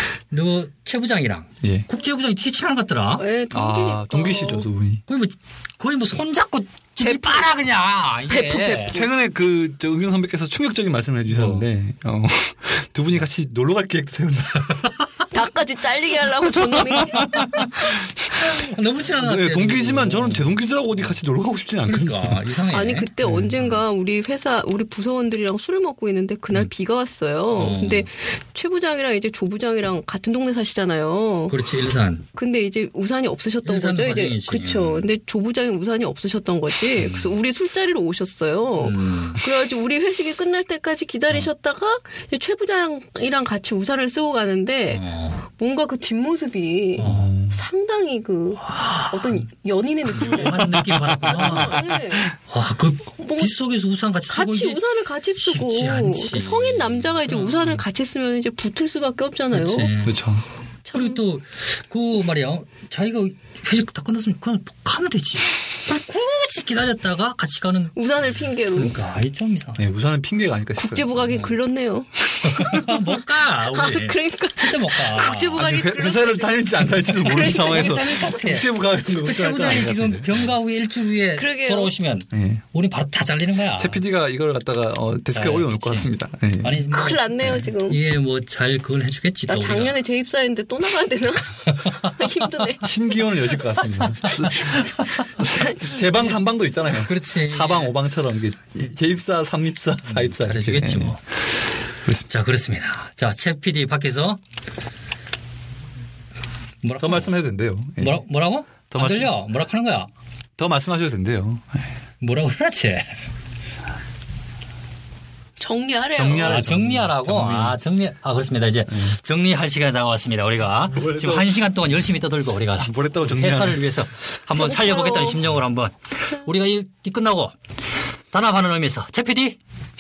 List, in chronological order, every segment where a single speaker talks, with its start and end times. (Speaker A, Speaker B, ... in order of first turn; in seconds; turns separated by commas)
Speaker A: 0.3-3.2, Speaker B: 3.2-4.7, Speaker C: 3.5-5.0, Speaker A: 5.1-9.0, Speaker B: 7.0-7.5, Speaker B: 8.3-9.1, Speaker C: 8.9-14.9, Speaker A: 11.3-11.7, Speaker B: 15.3-18.0, Speaker C: 16.3-18.6, Speaker A: 18.4-21.2, Speaker C: 19.2-22.5, Speaker A: 21.8-23.3, Speaker B: 22.7-31.5, Speaker C: 23.2-23.5, Speaker A: 27.5-28.1, Speaker A: 31.5-32.2, Speaker B: 32.4-45.0, Speaker A: 33.6-35.1, Speaker A: 37.0-37.4, Speaker A: 38.8-39.4, Speaker A: 44.9-45.4, Speaker B: 45.5-52.2, Speaker A: 47.0-47.3, Speaker C: 47.0-47.6, Speaker A: 48.6-49.4, Speaker A: 50.1-54.8, Speaker C: 51.3-51.6, Speaker B: 53.2-53.5, Speaker B: 54.3-59.9, Speaker A: 55.4-57.8, Speaker A: 59.5-60.2, Speaker C: 60.0-60.4, Speaker B: 60.9-61.2, Speaker A: 60.9-68.0, Speaker B: 68.0-68.9, Speaker A: 68.7-69.8, Speaker C: 69.8-71.1, Speaker B: 70.8-72.8, Speaker A: 71.2-71.5, Speaker C: 72.4-73.0, Speaker A: 72.4-75.6, Speaker B: 73.7-78.2, Speaker C: 75.5-80.5, Speaker A: 77.3-84.0, Speaker B: 81.3-81.9, Speaker C: 82.3-82.6, Speaker C: 83.8-86.8, Speaker A: 85.3-86.1, Speaker A: 86.6-90.0, Speaker B: 86.9-88.0, Speaker B: 89.5-92.9, Speaker C: 92.8-101.2, Speaker A: 94.6-95.0, Speaker B: 95.4-95.8, Speaker A: 97.0-97.9, Speaker A: 100.0-101.2, Speaker A: 102.3-104.4, Speaker A: 106.8-107.3, Speaker C: 107.0-108.2, Speaker A: 108.0-110.1, Speaker C: 108.9-109.3, Speaker C: 110.6-111.8, Speaker A: 112.2-113.2, Speaker B: 115.6-116.7, Speaker C: 116.1-117.8, Speaker A: 116.3-127.5, Speaker C: 120.9-121.5, Speaker C: 122.8-123.8, Speaker B: 124.5-125.4, Speaker A: 128.3-129.6